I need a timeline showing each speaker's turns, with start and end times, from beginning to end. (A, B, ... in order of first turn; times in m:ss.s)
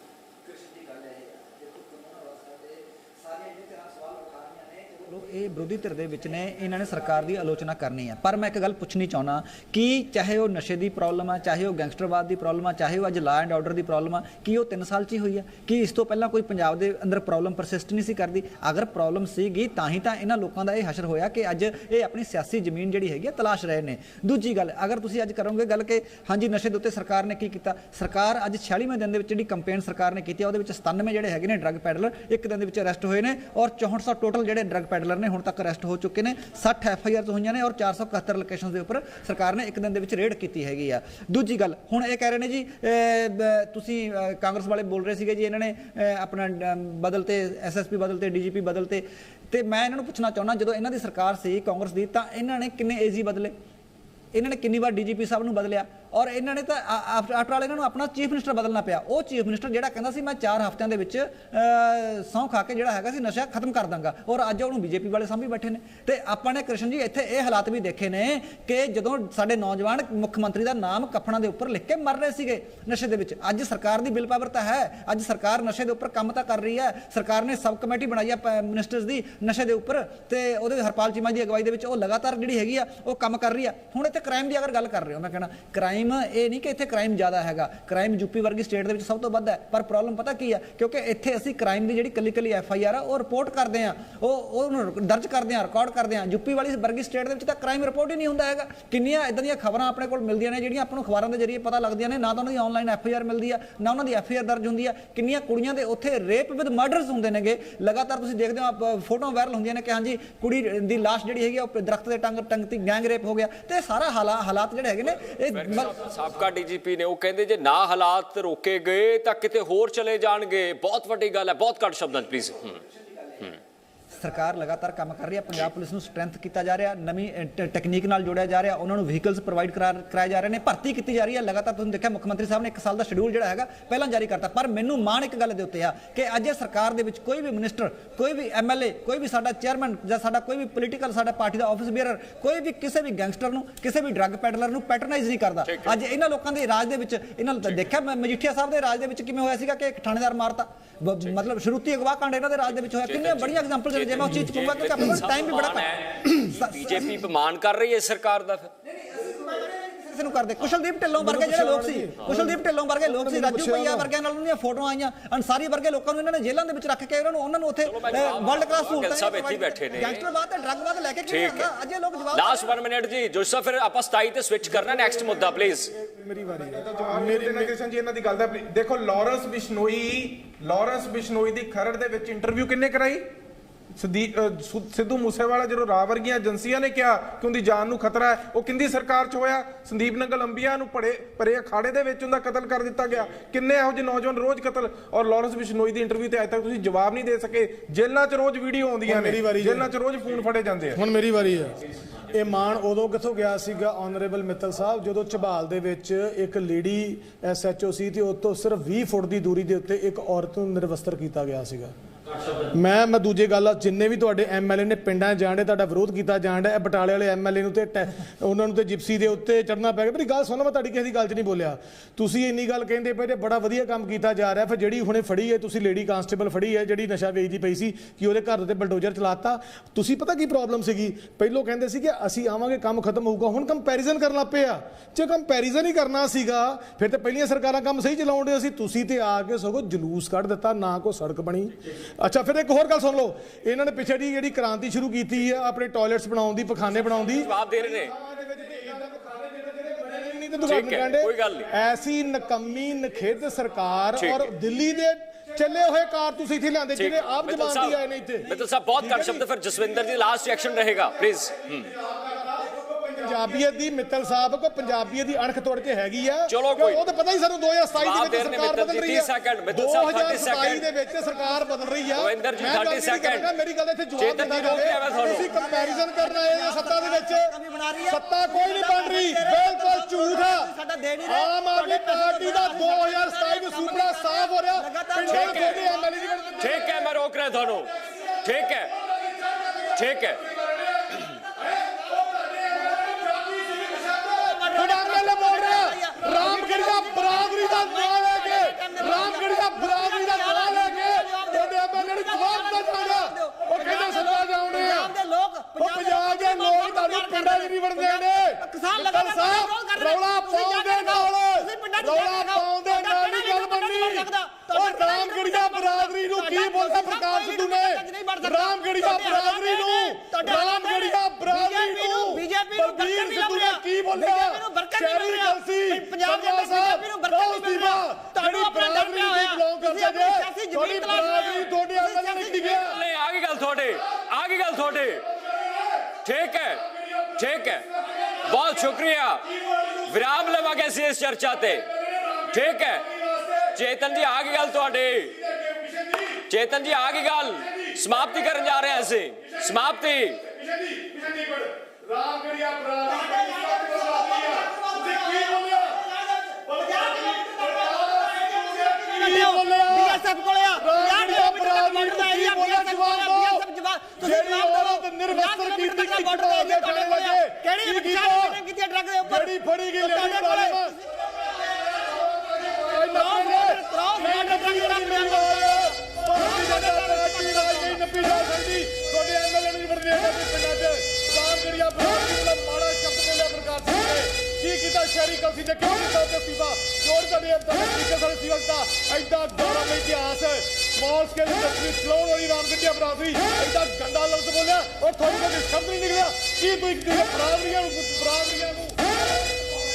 0:00.4-0:53.5 A
0:54.3-1:56.0 A
1:55.5-2:02.8 B
2:02.5-2:37.2 A
2:25.6-2:26.0 B
2:32.7-2:38.7 B
2:38.8-2:52.7 A
2:41.2-2:44.1 C
2:47.8-2:50.3 B
2:51.3-2:51.7 B
2:52.3-2:55.9 B
2:54.8-2:57.8 C
2:56.6-3:03.3 D
3:04.0-3:21.0 D
3:19.1-3:19.9 C
3:20.9-3:31.9 C
3:32.7-4:19.4 C
4:07.1-4:08.2 B
4:10.7-4:11.7 B
4:14.2-4:14.5 B
4:17.0-4:21.9 B
4:21.0-4:37.6 C
4:26.5-4:27.0 B
4:28.0-4:30.9 B
4:32.2-4:33.5 B
4:34.2-4:35.5 B
4:34.4-4:46.6 A
4:38.1-4:40.7 C
4:41.2-4:47.0 C
4:45.3-4:45.8 B
4:46.6-4:48.9 B
4:49.9-4:50.4 B
4:52.5-5:05.2 C
4:52.8-4:53.1 A
4:53.8-5:32.8 A
5:05.8-5:33.0 C
5:32.6-5:35.3 B
5:36.1-5:41.9 B
5:42.5-5:43.1 B
5:43.7-5:45.4 B
5:45.6-5:46.2 C
5:46.5-5:50.4 B
5:50.6-5:56.0 C
5:53.2-5:58.2 A
5:56.8-6:00.2 C
5:58.8-6:11.1 A
6:00.8-6:03.7 C
6:04.2-6:08.6 C
6:09.2-6:11.0 C
6:11.6-6:39.6 C
6:12.9-6:18.0 A